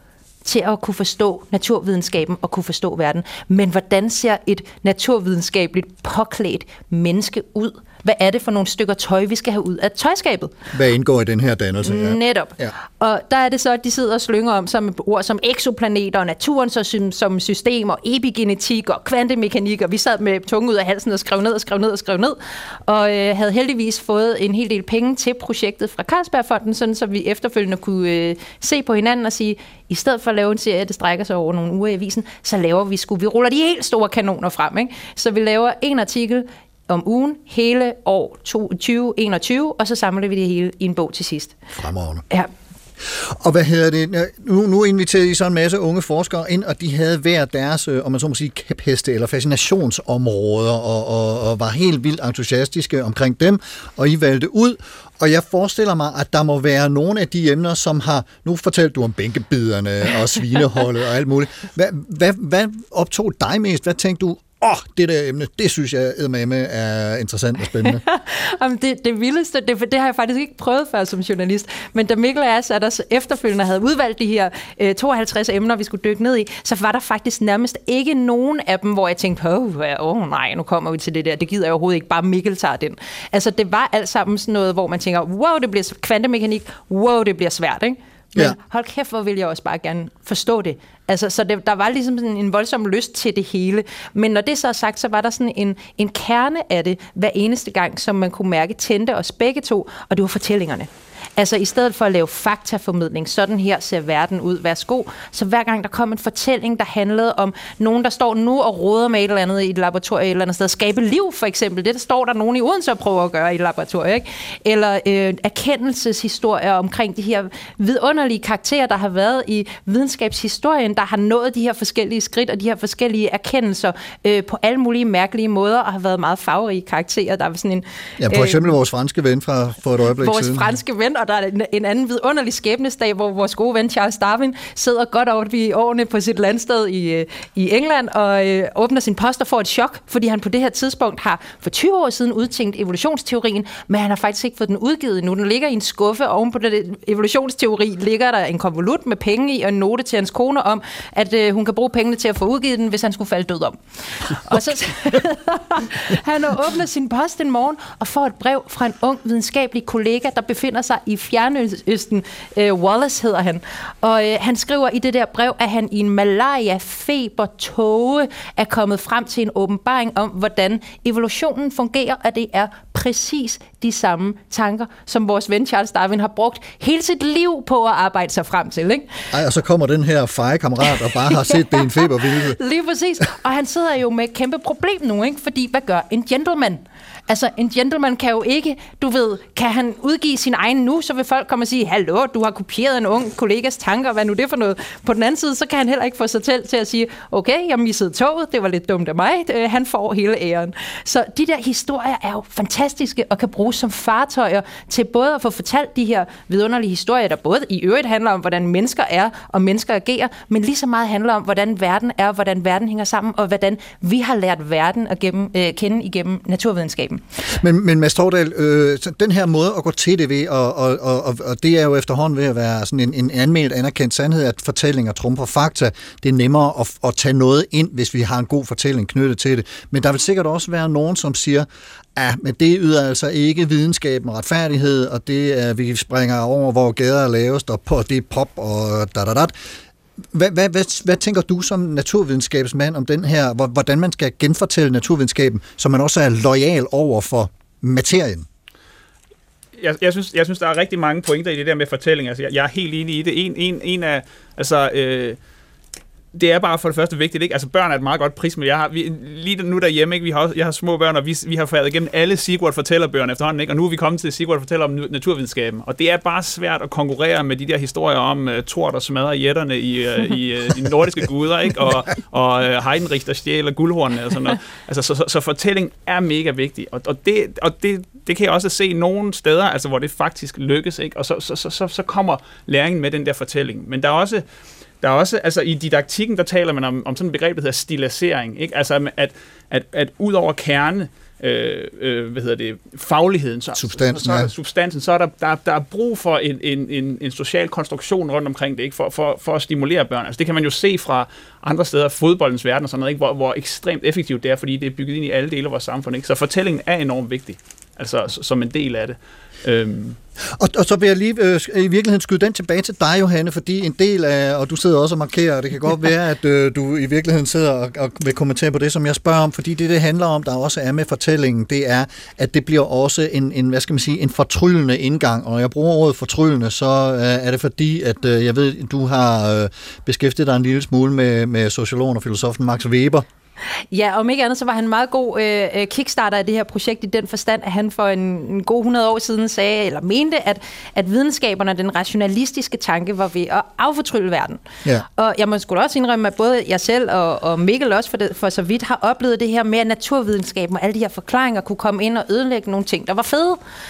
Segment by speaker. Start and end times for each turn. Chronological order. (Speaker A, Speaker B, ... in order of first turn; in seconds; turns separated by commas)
Speaker A: 0.5-10.5, Speaker B: 10.7-12.7, Speaker A: 11.8-41.6, Speaker B: 41.8-42.2, Speaker B: 43.1-68.0, Speaker A: 67.8-128.7, Speaker B: 128.2-130.7, Speaker A: 130.2-179.1, Speaker B: 179.3-182.6, Speaker A: 181.2-217.2, Speaker B: 217.6-239.5, Speaker B: 240.3-248.5, Speaker C: 249.8-255.4, Speaker C: 256.3-284.4, Speaker C: 285.0-310.2, Speaker B: 293.8-294.5, Speaker B: 310.6-333.3, Speaker A: 333.9-353.6